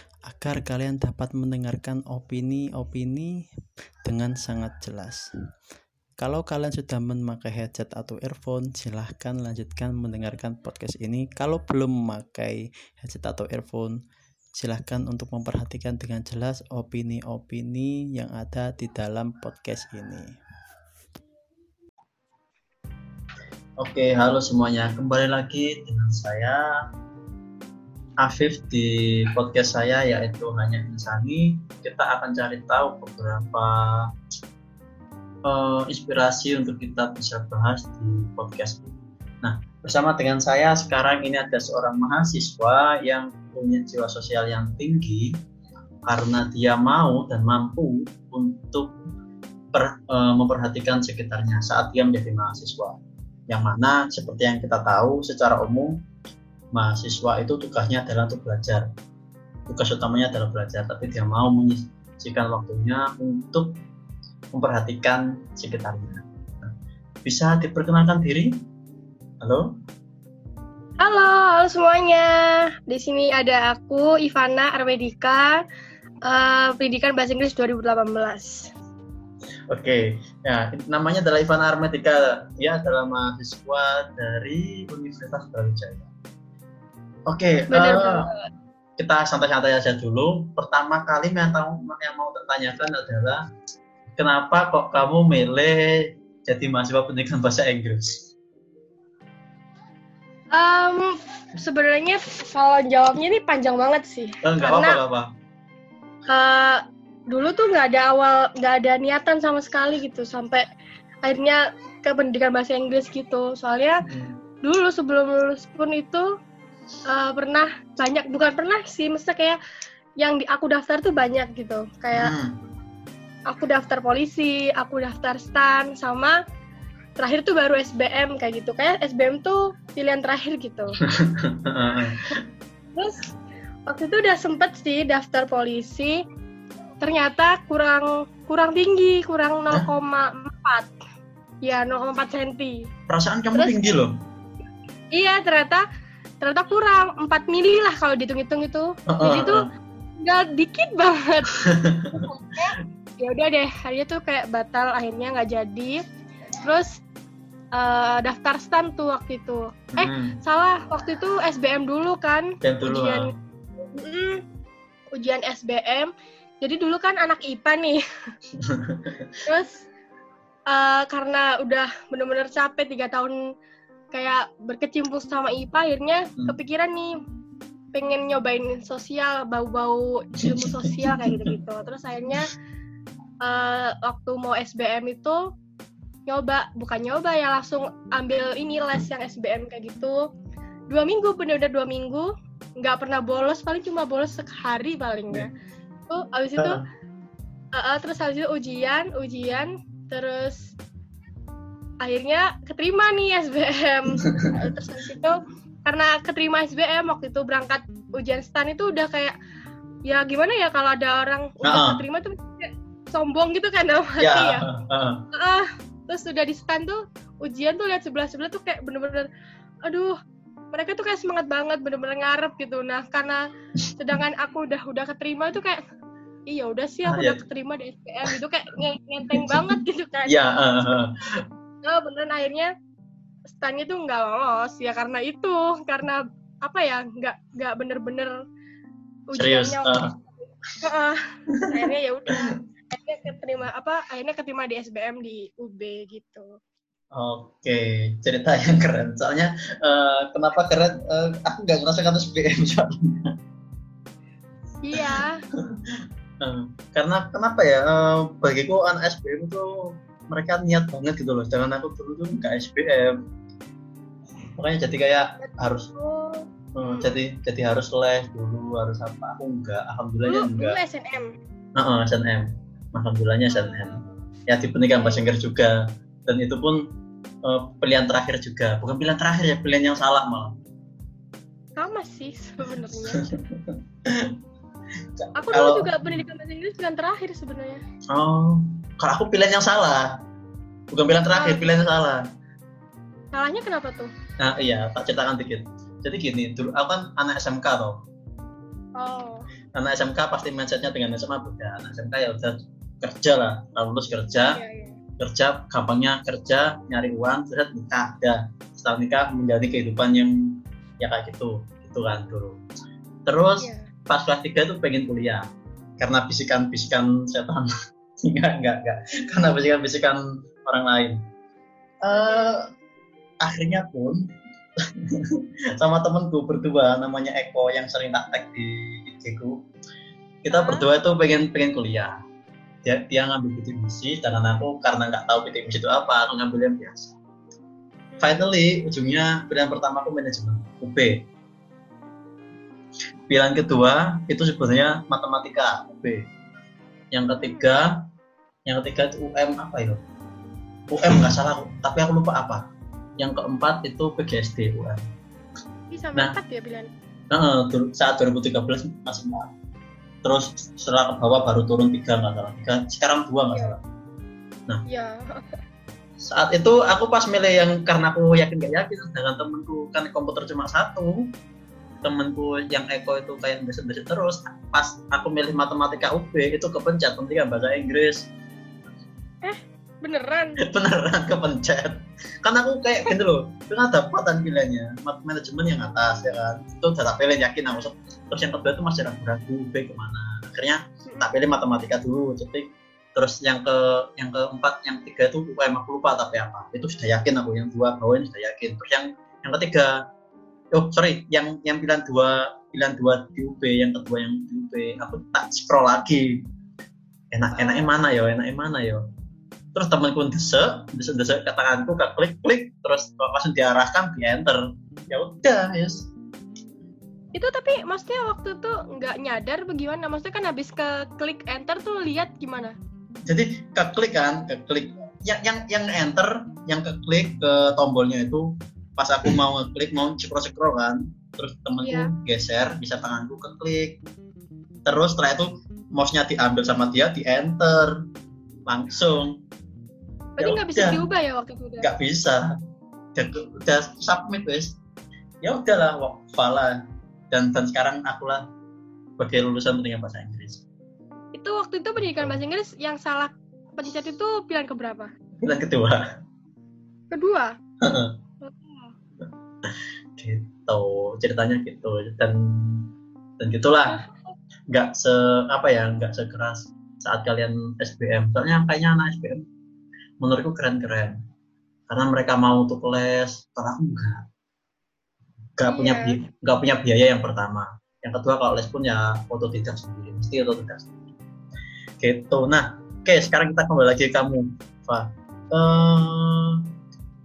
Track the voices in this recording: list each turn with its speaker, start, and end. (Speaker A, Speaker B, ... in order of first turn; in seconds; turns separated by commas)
Speaker A: 0.3-3.2, Speaker B: 0.4-1.6, Speaker A: 4.1-5.2, Speaker B: 4.1-5.0, Speaker A: 6.2-13.9, Speaker B: 6.8-7.2, Speaker B: 9.7-10.8, Speaker A: 14.6-20.2, Speaker B: 23.8-26.6, Speaker B: 28.2-34.1, Speaker B: 35.5-45.4, Speaker B: 46.1-48.9, Speaker B: 49.7-56.0, Speaker B: 56.7-58.8, Speaker B: 59.7-63.8, Speaker B: 64.5-66.7, Speaker B: 67.2-68.5, Speaker B: 69.4-69.7, Speaker C: 71.0-75.6, Speaker C: 76.2-78.7, Speaker B: 79.7-86.1, Speaker B: 87.3-88.3, Speaker C: 87.7-88.5, Speaker B: 89.0-93.4, Speaker B: 94.2-98.3, Speaker C: 100.5-105.0, Speaker B: 104.4-105.3, Speaker C: 106.3-110.6, Speaker C: 111.2-114.0, Speaker B: 114.0-114.4, Speaker C: 114.6-116.3, Speaker C: 117.1-119.6, Speaker C: 120.2-122.3, Speaker B: 122.1-122.6, Speaker C: 123.5-126.4, Speaker C: 127.2-131.0, Speaker B: 131.1-132.3, Speaker C: 132.9-133.2, Speaker C: 133.9-136.2, Speaker C: 137.0-140.9, Speaker C: 141.6-142.9, Speaker B: 143.1-144.2, Speaker C: 143.5-143.9, Speaker C: 145.1-145.8, Speaker C: 146.4-149.7, Speaker B: 149.1-149.7, Speaker C: 150.2-151.5, Speaker B: 151.5-152.3, Speaker C: 152.1-156.0, Speaker C: 156.6-157.0, Speaker C: 157.7-163.3, Speaker B: 159.9-160.4, Speaker B: 162.6-163.3, Speaker C: 163.9-164.4, Speaker C: 165.2-166.1, Speaker C: 166.6-168.0, Speaker B: 168.6-169.3, Speaker C: 169.4-169.8, Speaker C: 170.7-173.3, Speaker C: 174.1-177.1, Speaker C: 177.9-182.5, Speaker B: 180.5-181.5, Speaker C: 183.4-185.4, Speaker C: 186.3-190.2, Speaker C: 190.9-195.5, Speaker C: 196.1-196.8, Speaker B: 196.6-196.8, Speaker C: 197.8-200.7, Speaker C: 202.0-209.3, Speaker B: 204.2-204.5, Speaker C: 210.1-214.6, Speaker B: 211.6-212.0, Speaker B: 214.2-215.2, Speaker C: 215.3-219.3, Speaker C: 219.8-220.2, Speaker C: 220.7-223.4, Speaker C: 224.0-225.8, Speaker C: 226.5-230.4, Speaker B: 227.1-227.4, Speaker B: 229.3-229.7, Speaker B: 230.2-231.4, Speaker C: 231.8-232.7, Speaker C: 233.6-238.4, Speaker C: 239.3-240.0, Speaker B: 239.3-240.1, Speaker C: 240.8-246.6, Speaker B: 247.1-253.3, Speaker C: 254.8-255.4, Speaker B: 256.4-263.2, Speaker B: 264.6-265.9, Speaker C: 265.4-267.2, Speaker B: 266.7-270.8, Speaker C: 270.2-271.3, Speaker B: 271.8-276.9, Speaker C: 273.5-274.1, Speaker C: 274.9-275.3, Speaker B: 277.4-280.5, Speaker C: 281.8-283.3, Speaker B: 283.1-284.3, Speaker B: 285.2-286.2, Speaker C: 285.4-287.8, Speaker B: 288.1-290.1, Speaker B: 290.9-292.2, Speaker C: 291.3-291.7, Speaker C: 293.3-294.1, Speaker B: 294.4-298.0, Speaker C: 299.0-299.4, Speaker B: 299.7-304.6, Speaker C: 304.5-305.0, Speaker B: 305.2-312.6, Speaker B: 313.2-315.4, Speaker C: 313.6-313.9, Speaker B: 316.0-317.7, Speaker B: 318.2-321.2, Speaker B: 322.0-322.7, Speaker C: 322.1-322.7, Speaker B: 323.4-324.2, Speaker B: 324.8-329.6, Speaker B: 330.4-332.1, Speaker C: 330.5-330.9, Speaker B: 332.8-337.2, Speaker C: 338.1-338.5, Speaker B: 338.2-341.2, Speaker B: 343.3-346.2, Speaker B: 347.1-348.0, Speaker C: 347.4-347.7, Speaker B: 348.6-350.0, Speaker B: 350.9-352.6, Speaker B: 353.2-355.0, Speaker C: 355.9-356.9, Speaker B: 357.3-359.5, Speaker B: 360.2-363.8, Speaker C: 364.9-365.6, Speaker B: 366.2-371.3, Speaker B: 372.0-378.3, Speaker C: 379.4-380.6, Speaker B: 380.6-400.0, Speaker C: 391.1-391.3, Speaker B: 400.7-406.4, Speaker B: 407.3-409.0, Speaker C: 407.6-407.9, Speaker B: 409.7-416.1, Speaker C: 417.3-422.7, Speaker B: 423.2-434.0, Speaker C: 431.8-432.1, Speaker B: 434.8-438.0, Speaker B: 438.6-439.4, Speaker C: 440.4-441.9, Speaker B: 440.4-441.0, Speaker B: 441.8-442.5, Speaker B: 443.1-444.8, Speaker B: 445.4-446.8, Speaker B: 447.3-448.4, Speaker B: 449.2-450.6, Speaker C: 451.3-455.1, Speaker B: 452.0-452.4, Speaker B: 455.4-456.0, Speaker C: 457.1-457.5, Speaker B: 457.8-458.2, Speaker C: 458.4-458.9, Speaker B: 459.6-464.0, Speaker B: 464.7-469.4, Speaker B: 470.2-471.1, Speaker B: 471.9-474.3, Speaker B: 475.6-480.9, Speaker C: 475.7-476.2, Speaker B: 482.0-486.6